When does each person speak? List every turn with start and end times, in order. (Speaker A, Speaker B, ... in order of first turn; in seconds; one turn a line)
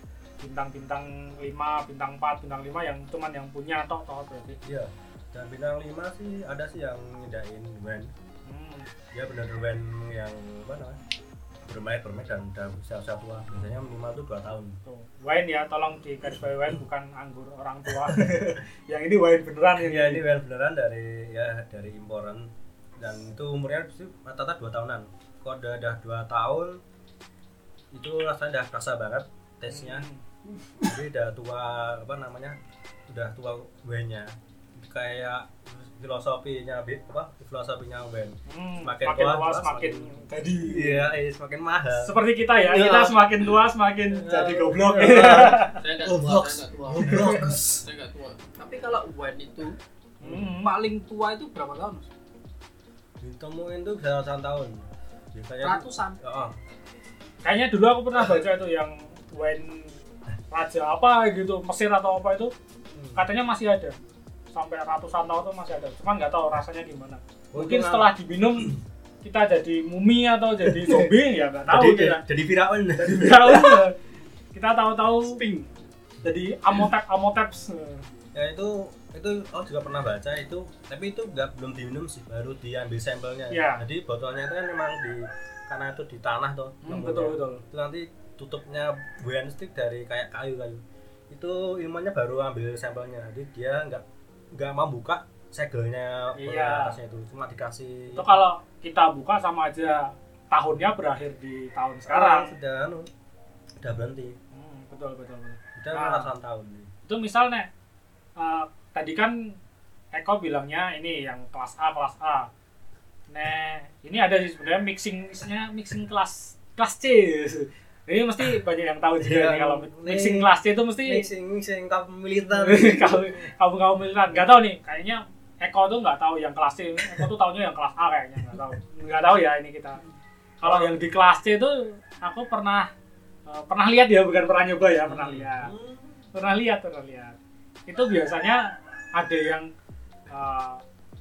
Speaker A: 0.4-4.6
Speaker B: 4.7-8.1
Speaker A: 8.5-8.9
Speaker B: 9.1-11.0
Speaker B: 11.7-14.8
Speaker A: 14.8-20.2
Speaker B: 18.0-18.5
Speaker B: 19.8-26.8
Speaker B: 27.9-30.1
Speaker A: 29.7-30.2
Speaker B: 30.8-32.6
Speaker B: 33.1-40.1
Speaker A: 38.5-41.1
Speaker B: 40.6-42.2
Speaker A: 41.9-45.8
Speaker C: 42.7-43.1
Speaker B: 42.8-43.1
Speaker B: 44.2-47.9
Speaker C: 44.3-44.7
Speaker C: 45.6-49.8
Speaker A: 47.0-47.5
Speaker A: 50.2-50.7
Speaker C: 50.3-52.1
Speaker B: 53.2-54.8
Speaker B: 55.3-56.5
Speaker C: 55.6-56.2
Speaker A: 57.4-59.9
Speaker A: 60.5-62.5
Speaker B: 63.0-63.2
Speaker A: 63.1-64.0
Speaker A: 64.5-72.2
Speaker B: 67.5-68.1
Speaker B: 70.7-71.1
Speaker B: 71.7-73.9
Speaker A: 73.0-74.0
Speaker A: 74.5-75.4
Speaker C: 75.2-75.7
Speaker A: 76.2-78.0
Speaker B: 78.3-94.0
Speaker A: 83.5-83.8
Speaker A: 86.8-87.6
Speaker B: 94.6-98.3
Speaker A: 96.4-97.0
Speaker A: 98.1-102.5
Speaker B: 102.1-103.1
Speaker B: 103.8-104.4
Speaker A: 104.5-106.3
Speaker B: 105.8-106.9
Speaker A: 107.1-107.7
Speaker A: 108.4-109.6
Speaker A: 110.1-112.5
Speaker A: 113.3-121.3
Speaker B: 119.2-120.5
Speaker B: 121.0-123.5
Speaker A: 122.6-130.0
Speaker A: 130.6-132.9
Speaker B: 130.6-131.0
Speaker A: 133.5-135.7
Speaker B: 135.1-136.1
Speaker A: 136.3-139.7
Speaker A: 140.3-140.8